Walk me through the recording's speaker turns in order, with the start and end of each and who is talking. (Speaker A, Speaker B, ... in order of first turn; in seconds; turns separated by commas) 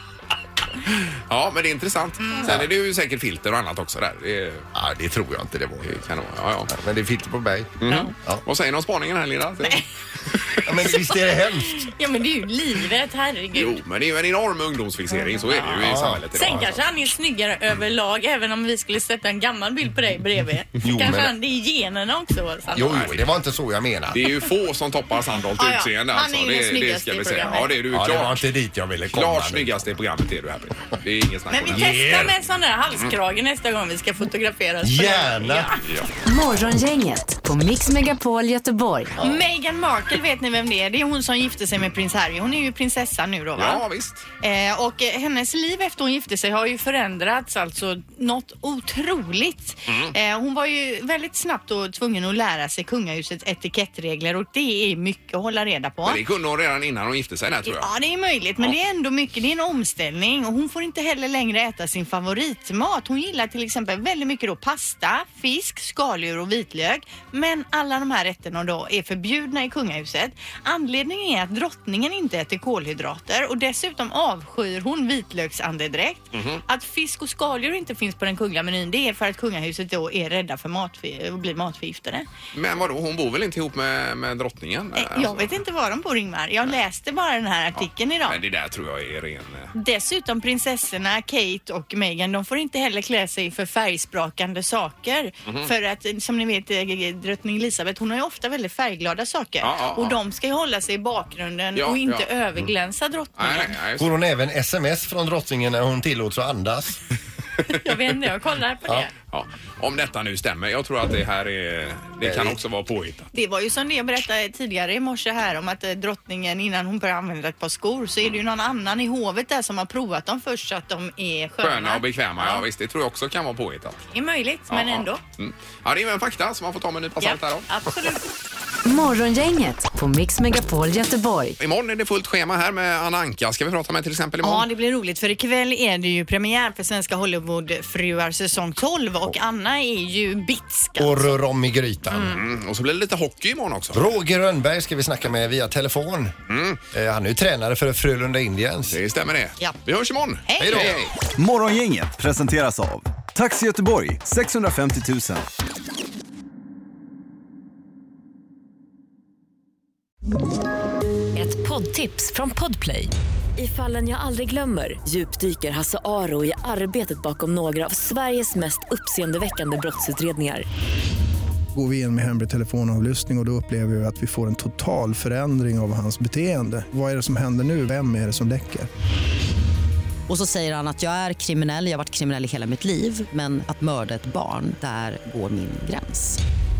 Speaker A: 0.9-4.7, Speaker B: 2.2-2.5, Speaker C: 4.7-6.0, Speaker A: 5.8-6.7, Speaker C: 6.7-8.4, Speaker A: 7.8-10.7, Speaker C: 10.6-11.9, Speaker B: 10.8-13.8, Speaker A: 13.5-16.8, Speaker B: 15.1-15.4, Speaker C: 15.5-16.7, Speaker B: 16.3-23.0, Speaker C: 20.8-21.3, Speaker C: 22.7-24.2, Speaker A: 22.8-23.2, Speaker A: 24.1-28.4, Speaker B: 25.6-27.7, Speaker C: 27.9-29.9, Speaker A: 29.1-32.3, Speaker B: 31.5-35.8, Speaker C: 31.7-32.3, Speaker C: 34.8-35.7, Speaker A: 35.8-36.1, Speaker D: 36.2-39.1, Speaker C: 39.1-39.5, Speaker B: 39.2-43.8, Speaker A: 43.6-44.2, Speaker B: 44.4-56.2, Speaker A: 49.9-50.1, Speaker A: 56.0-57.9, Speaker B: 57.6-82.3, Speaker A: 76.3-76.6, Speaker A: 82.5-85.6, Speaker B: 84.9-88.4, Speaker A: 87.8-89.7, Speaker B: 89.7-103.7, Speaker A: 99.6-100.2, Speaker A: 101.8-102.3, Speaker A: 103.3-104.1, Speaker C: 104.0-107.0, Speaker B: 107.7-109.1, Speaker A: 109.3-113.3, Speaker C: 112.2-112.5, Speaker B: 113.3-122.7, Speaker A: 121.6-124.0, Speaker B: 124.1-125.2, Speaker A: 124.7-127.7, Speaker B: 127.2-128.2, Speaker D: 128.8-131.6, Speaker A: 131.6-134.7, Speaker B: 134.4-141.3, Speaker C: 141.0-142.4, Speaker B: 142.1-142.4, Speaker A: 142.3-144.1, Speaker C: 143.9-146.3, Speaker A: 146.5-146.8, Speaker C: 146.9-149.0, Speaker A: 148.9-151.1, Speaker B: 150.4-150.9, Speaker C: 150.6-151.0, Speaker E: 151.4-155.4, Speaker F: 161.4-170.7, Speaker G: 171.7-178.9, Speaker H: 180.3-186.4